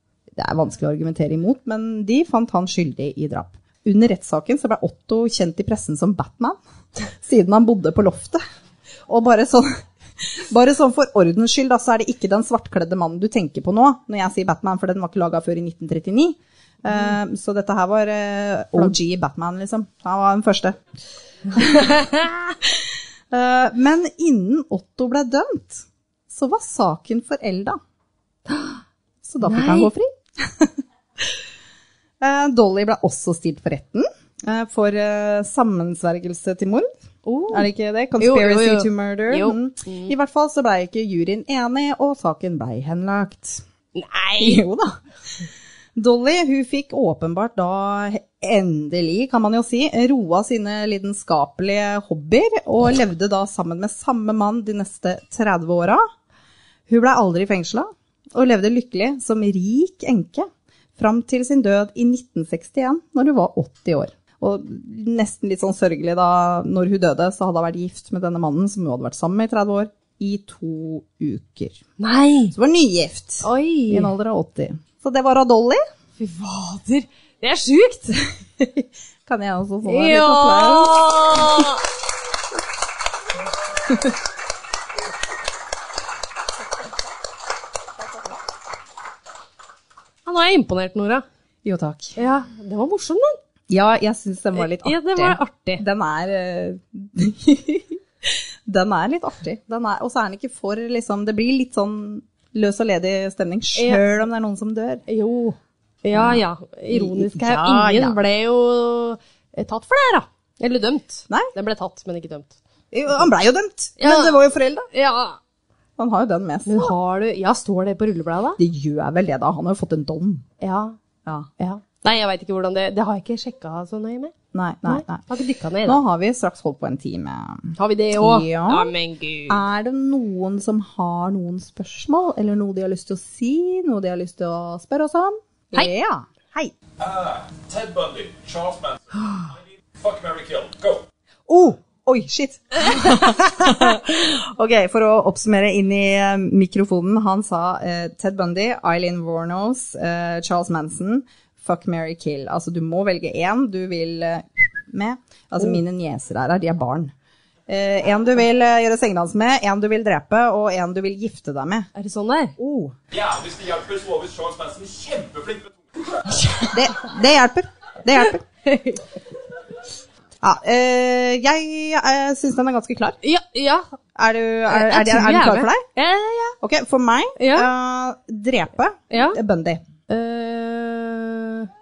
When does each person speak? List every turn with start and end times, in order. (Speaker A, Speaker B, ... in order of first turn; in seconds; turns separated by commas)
Speaker A: 0.3-6.6, Speaker A: 7.2-8.4, Speaker A: 9.1-9.7, Speaker A: 10.2-20.8, Speaker A: 21.5-27.8, Speaker B: 21.6-22.3, Speaker B: 28.5-28.8, Speaker A: 29.2-31.3, Speaker B: 29.4-29.9, Speaker A: 32.2-36.9, Speaker B: 37.3-37.7, Speaker A: 37.5-43.6, Speaker B: 38.2-40.1, Speaker B: 44.0-44.6, Speaker A: 44.4-45.0, Speaker A: 46.0-56.0, Speaker A: 56.9-71.8, Speaker B: 72.0-72.5, Speaker A: 72.5-75.8, Speaker B: 73.4-74.1, Speaker B: 76.2-78.2, Speaker A: 78.6-81.7, Speaker B: 79.8-81.8, Speaker B: 90.3-91.2, Speaker A: 91.7-92.2, Speaker B: 92.2-93.4, Speaker A: 93.7-105.0, Speaker B: 94.6-95.8, Speaker B: 103.8-104.1, Speaker B: 105.1-112.6, Speaker A: 106.1-108.2, Speaker A: 112.9-114.9, Speaker B: 114.0-115.4, Speaker A: 116.0-116.9, Speaker B: 116.7-118.6, Speaker A: 118.6-120.4, Speaker B: 120.6-121.0, Speaker B: 121.6-124.3, Speaker A: 124.5-125.3, Speaker B: 124.9-126.0, Speaker A: 125.8-128.9, Speaker B: 127.8-129.6, Speaker A: 129.5-136.7, Speaker C: 137.0-141.0, Speaker A: 141.5-157.1, Speaker B: 142.8-143.9, Speaker A: 157.7-161.9, Speaker B: 161.9-162.6, Speaker A: 162.6-162.9, Speaker C: 163.1-165.7, Speaker A: 166.6-168.4, Speaker B: 168.7-169.1, Speaker A: 170.4-173.2, Speaker B: 173.2-173.9, Speaker A: 174.2-175.8, Speaker B: 174.7-176.6, Speaker A: 176.6-179.8, Speaker B: 177.4-177.7, Speaker B: 179.1-179.4, Speaker B: 180.1-181.7